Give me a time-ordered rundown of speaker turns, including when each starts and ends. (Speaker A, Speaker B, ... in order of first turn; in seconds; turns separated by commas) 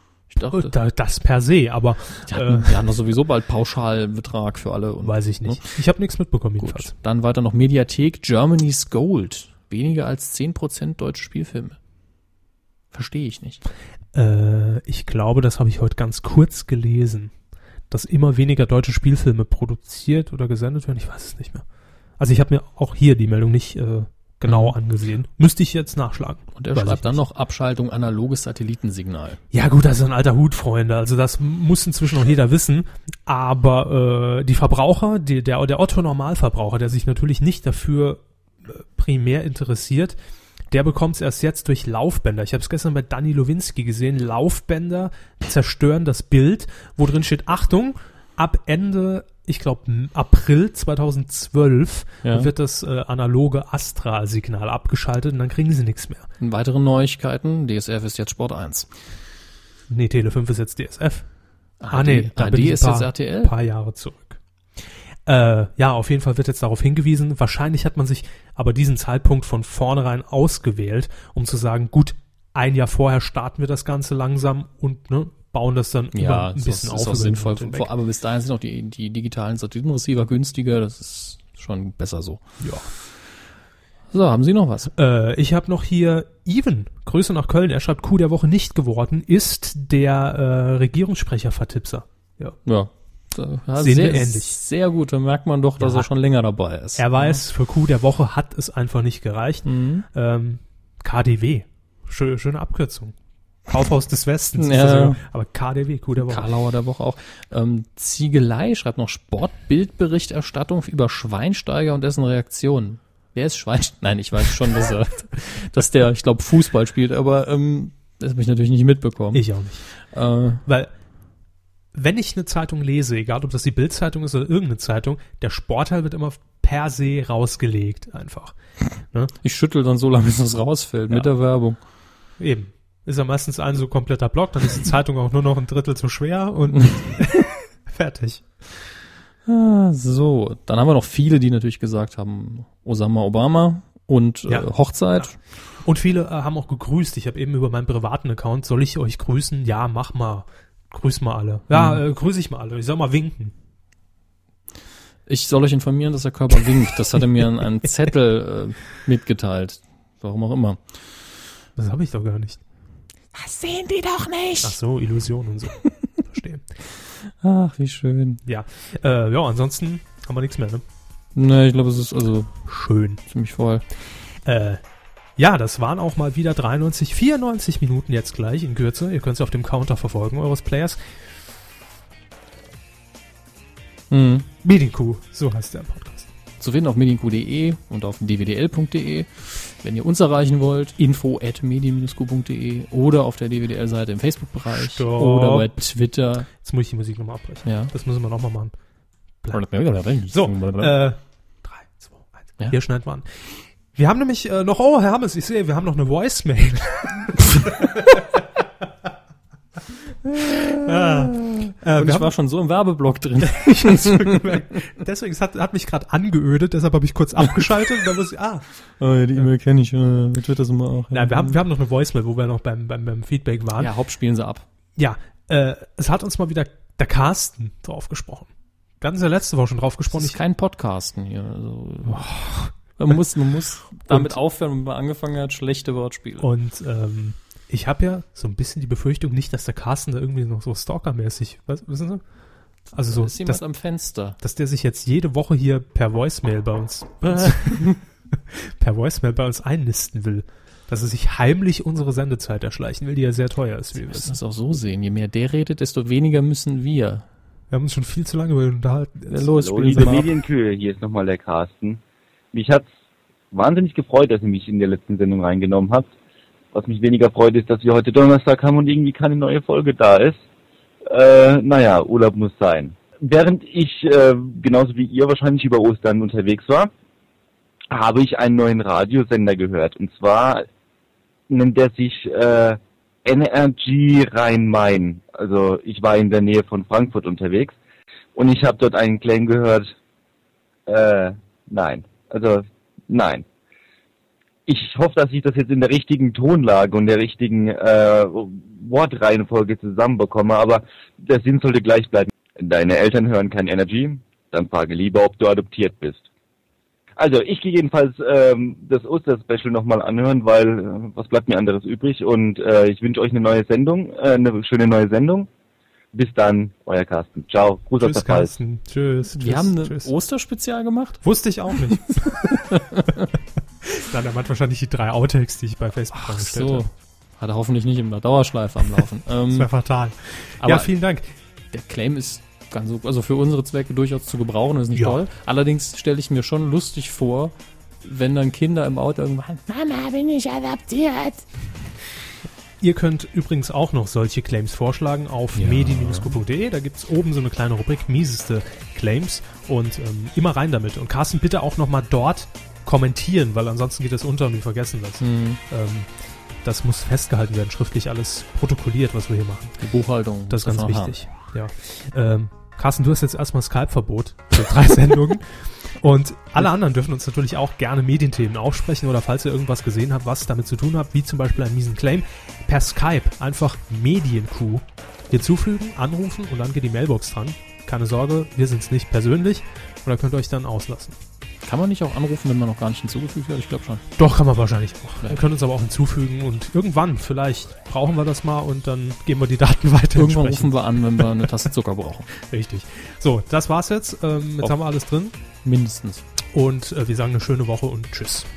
Speaker A: 0.3-0.7, Speaker B: 0.5-2.8, Speaker A: 2.3-5.7, Speaker B: 5.0-6.9, Speaker A: 6.6-11.8, Speaker A: 12.9-13.6, Speaker B: 14.1-17.3, Speaker B: 17.9-21.6, Speaker B: 22.2-27.2, Speaker A: 24.5-24.7, Speaker A: 26.6-29.4, Speaker B: 29.5-40.1, Speaker B: 40.7-56.3, Speaker A: 52.2-52.5, Speaker A: 56.4-58.9, Speaker B: 59.9-61.2, Speaker A: 61.8-63.5, Speaker B: 61.9-64.4, Speaker B: 65.2-77.9, Speaker A: 76.1-82.4, Speaker B: 82.6-82.9, Speaker A: 84.1-84.9, Speaker B: 84.9-92.6, Speaker A: 92.6-97.4, Speaker B: 93.8-94.6, Speaker B: 95.8-96.1, Speaker B: 97.0-103.1, Speaker A: 99.6-100.0, Speaker B: 103.7-106.5, Speaker A: 104.6-105.2, Speaker A: 106.2-119.4, Speaker B: 119.3-119.8, Speaker A: 120.1-120.6, Speaker B: 120.6-120.9, Speaker B: 121.9-128.5, Speaker A: 129.4-131.8, Speaker B: 132.4-138.4, Speaker A: 139.5-145.3, Speaker B: 144.5-145.3, Speaker B: 145.8-153.5, Speaker A: 151.7-152.0, Speaker A: 155.2-160.8, Speaker B: 161.8-162.6, Speaker A: 163.3-164.8, Speaker B: 164.6-166.6, Speaker A: 167.4-168.4, Speaker B: 168.4-170.8, Speaker A: 171.3-172.5, Speaker B: 172.7-173.2, Speaker A: 173.2-173.8, Speaker B: 174.4-174.8, Speaker B: 175.4-181.0, Speaker A: 184.1-184.5, Speaker B: 184.6-186.3, Speaker A: 186.6-196.5, Speaker B: 194.8-195.7, Speaker B: 196.6-198.7, Speaker A: 197.6-197.9, Speaker A: 199.5-201.0, Speaker B: 200.3-208.2, Speaker A: 210.2-214.6, Speaker B: 210.7-212.3, Speaker B: 213.4-218.7, Speaker A: 219.0-221.6, Speaker B: 221.1-223.9, Speaker A: 223.8-224.7, Speaker B: 225.0-228.5, Speaker B: 229.0-230.4, Speaker A: 230.1-236.5, Speaker B: 232.1-232.7, Speaker B: 234.1-234.3, Speaker B: 236.4-242.2, Speaker B: 242.9-243.6, Speaker A: 243.1-244.4, Speaker B: 244.4-247.9, Speaker A: 247.3-248.0, Speaker B: 248.5-254.4, Speaker A: 253.9-257.2, Speaker B: 257.7-260.2, Speaker A: 259.3-260.3, Speaker C: 259.6-262.0, Speaker C: 262.5-262.9, Speaker C: 263.5-266.1, Speaker C: 266.7-270.4, Speaker C: 271.1-276.9, Speaker C: 277.9-280.6, Speaker C: 281.5-287.7, Speaker C: 288.4-289.9, Speaker C: 290.9-293.4, Speaker C: 294.7-306.2, Speaker C: 307.2-315.5, Speaker C: 316.1-318.5, Speaker B: 318.0-320.1, Speaker A: 319.3-321.2, Speaker B: 321.2-322.6, Speaker A: 322.2-323.3, Speaker B: 323.8-326.9, Speaker A: 326.1-329.7, Speaker B: 329.5-331.3, Speaker A: 330.6-330.9, Speaker A: 331.7-341.4, Speaker B: 334.9-335.2, Speaker B: 342.8-356.1, Speaker A: 345.5-346.3, Speaker A: 355.2-355.6, Speaker B: 356.6-359.8, Speaker A: 359.8-361.2, Speaker B: 360.5-365.5, Speaker B: 366.0-381.1, Speaker A: 381.6-384.0, Speaker B: 384.2-391.5, Speaker A: 390.1-392.3, Speaker B: 392.3-395.3, Speaker A: 395.6-396.2, Speaker B: 396.5-398.5